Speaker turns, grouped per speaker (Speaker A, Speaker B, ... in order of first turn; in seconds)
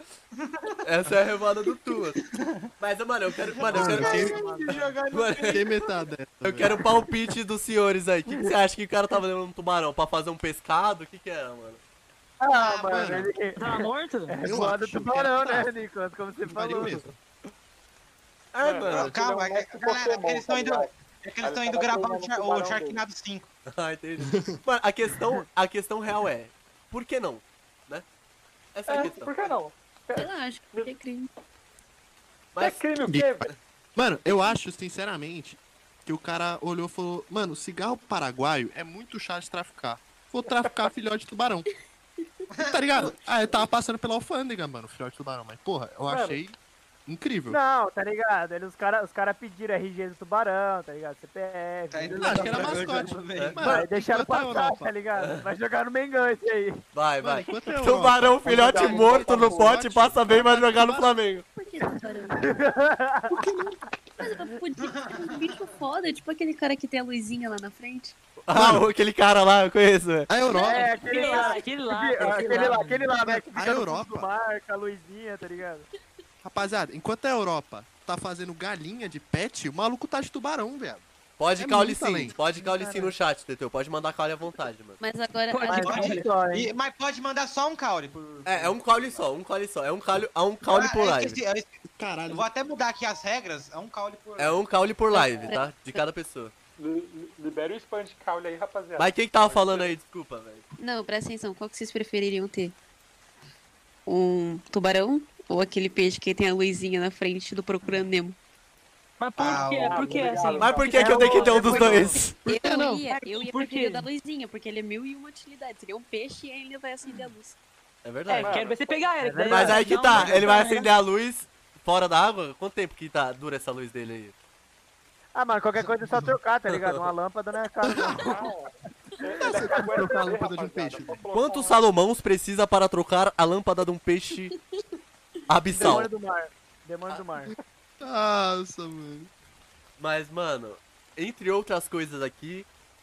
Speaker A: 0.4-0.7, 2.2-2.6, 3.5-5.8, 12.6-13.2, 18.9-23.5, 42.5-43.1, 51.9-53.7, 64.8-65.7, 85.8-89.2, 90.6-91.8, 92.3-94.6, 109.4-110.3
Speaker B: 0.8-2.2, 2.8-4.4, 5.1-5.7, 6.4-11.8, 18.5-19.1, 23.7-28.0, 28.7-29.4, 32.5-32.8, 53.4-53.7, 55.1-55.5, 56.9-61.4, 68.4-70.3, 81.4-85.0, 88.5-91.4, 94.4-96.5, 99.0-100.7, 110.6-112.4, 118.0-118.7, 119.5-124.3, 126.7-127.0, 131.3-134.6, 135.5-136.1, 140.0-142.7
Speaker C: 3.7-4.4, 5.5-6.8, 12.9-13.3, 14.4-15.7, 16.5-17.1, 33.0-33.4, 34.0-41.7, 42.6-47.6, 52.2-54.9, 57.2-61.0, 68.5-68.8, 70.3-70.9, 73.2-74.3, 76.4-81.0, 81.6-82.3, 91.9-92.5, 112.4-113.0, 129.4-131.2, 138.0-139.3
Speaker D: 3.8-4.9, 12.4-17.0, 47.5-56.8, 58.5-59.0, 62.4-63.4, 70.6-75.9, 82.6-83.1, 85.7-86.7, 110.5-112.2, 119.2-120.5, 125.3-128.4, 135.7-137.5
Speaker E: 13.6-14.3, 70.8-73.1, 85.5-86.3, 109.2-112.1, 113.1-114.1, 118.3-120.9
Speaker F: 18.6-23.0, 28.9-30.9, 32.6-33.5, 40.5-40.8, 46.1-46.4, 96.8-100.0, 109.7-112.1, 118.3-119.0, 128.2-131.8
Speaker G: 30.1-31.3, 61.5-62.6, 63.3-68.1, 70.5-71.6, 85.0-86.1, 95.1-96.0, 100.8-102.8, 104.0-108.4, 112.4-117.6, 134.5-134.8